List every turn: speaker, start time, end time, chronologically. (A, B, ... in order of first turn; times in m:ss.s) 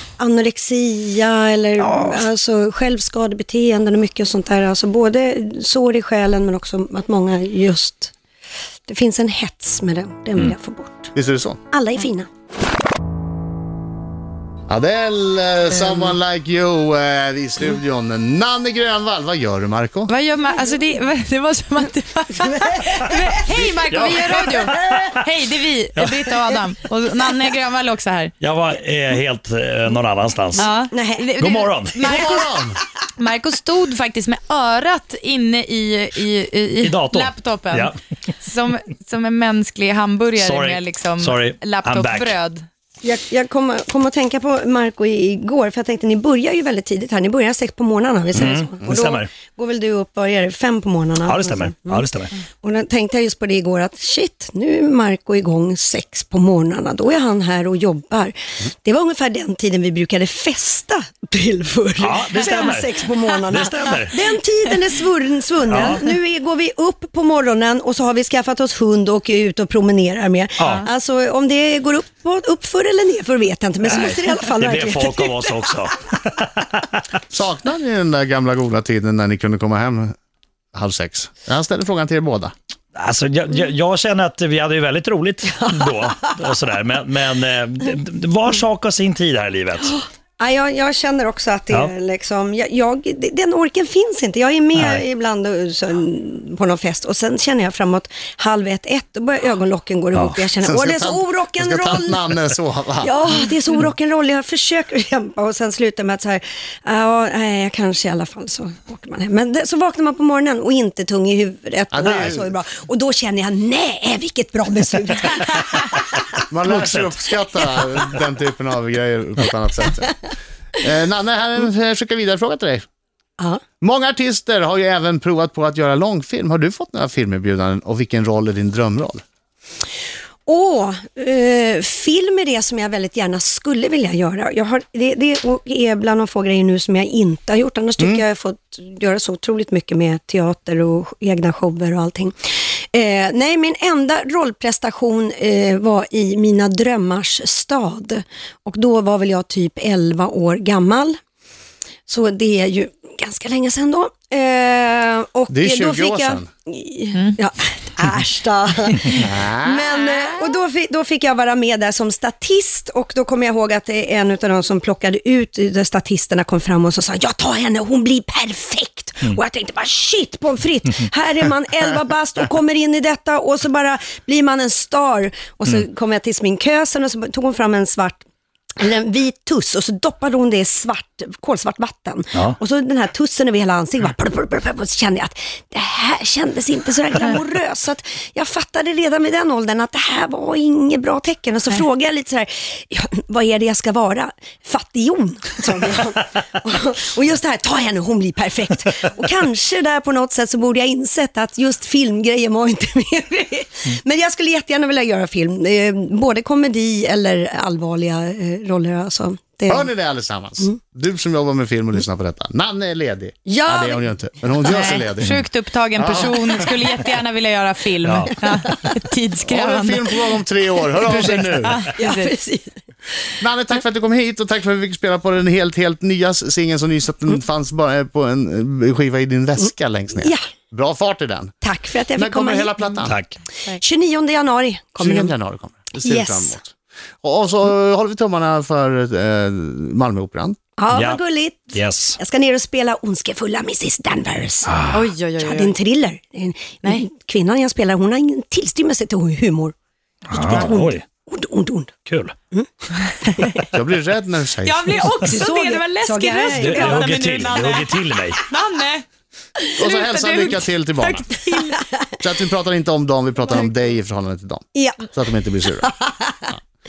0:00.2-0:08.1 A
0:01.8-0:02.2 B
0:08.9-0:11.1 A
0:11.2-0:11.6 C
0:11.7-0:12.3 A
0:14.7-0:20.1 C
0:20.1-0:28.3 B
0:22.5-0:23.2 A
0:23.9-0:25.2 D
0:26.0-0:26.4 D
0:28.4-0:30.7 D
0:30.6-0:32.6 B
0:30.9-0:31.3 A
0:31.4-0:32.0 D
0:32.0-0:32.8 C
0:33.2-0:42.7 B
0:36.8-0:38.0 D
0:40.4-0:42.4 D
0:43.0-0:52.1 A
0:48.3-0:49.3 D
0:51.3-0:52.3 D
0:52.6-1:15.8 A
1:02.0-1:04.2 D
1:02.4-1:02.8 B
1:05.7-1:06.1 D
1:10.6-1:10.9 D
1:13.8-1:17.0 D
1:17.3-1:20.2 C
1:20.7-1:22.5 C
1:22.9-1:30.0 D
1:30.4-1:42.2 A
1:34.8-1:35.0 D
1:40.1-1:40.4 D
1:40.6-1:43.1 C
1:43.0-1:56.0 A
1:51.9-1:52.5 C
1:56.5-2:00.1 C
1:56.7-1:57.2 D
2:00.8-2:02.8 C
2:03.8-2:09.2 C
2:10.5-2:31.2 A
2:32.1-2:58.2 A
2:35.5-2:36.5 C
2:39.2-2:40.2 C
2:58.8-3:29.9 A
3:29.7-3:35.4 C
3:33.5-3:34.1 A
3:34.6-3:40.3 B
3:36.0-3:36.8 C
3:38.0-3:38.4 D
3:38.6-3:39.0 A
3:39.5-3:41.9 C
3:41.0-3:42.3 B
3:42.0-3:42.8 A
3:43.4-3:51.6 C
3:50.2-3:50.5 A
3:51.6-3:52.8 A
3:52.2-3:53.2 C
3:53.1-3:53.4 D
3:53.7-3:55.3 A
3:55.0-4:00.6 C
3:56.0-3:56.6 A
4:00.8-4:09.8 A
4:00.9-4:01.2 D
4:01.7-4:02.2 D
4:04.7-4:05.0 D
4:04.9-4:05.8 B
4:10.3-4:11.0 D
4:10.3-4:11.9 A
4:12.1-4:12.4 D
4:13.0-4:13.5 B
4:13.7-4:15.0 C
4:14.6-4:19.1 B
4:15.2-4:17.1 A
4:16.5-4:18.4 D
4:19.8-4:21.8 B
4:19.8-4:21.3 C
4:22.2-4:25.9 C
4:24.8-4:25.0 A
4:25.8-4:26.4 A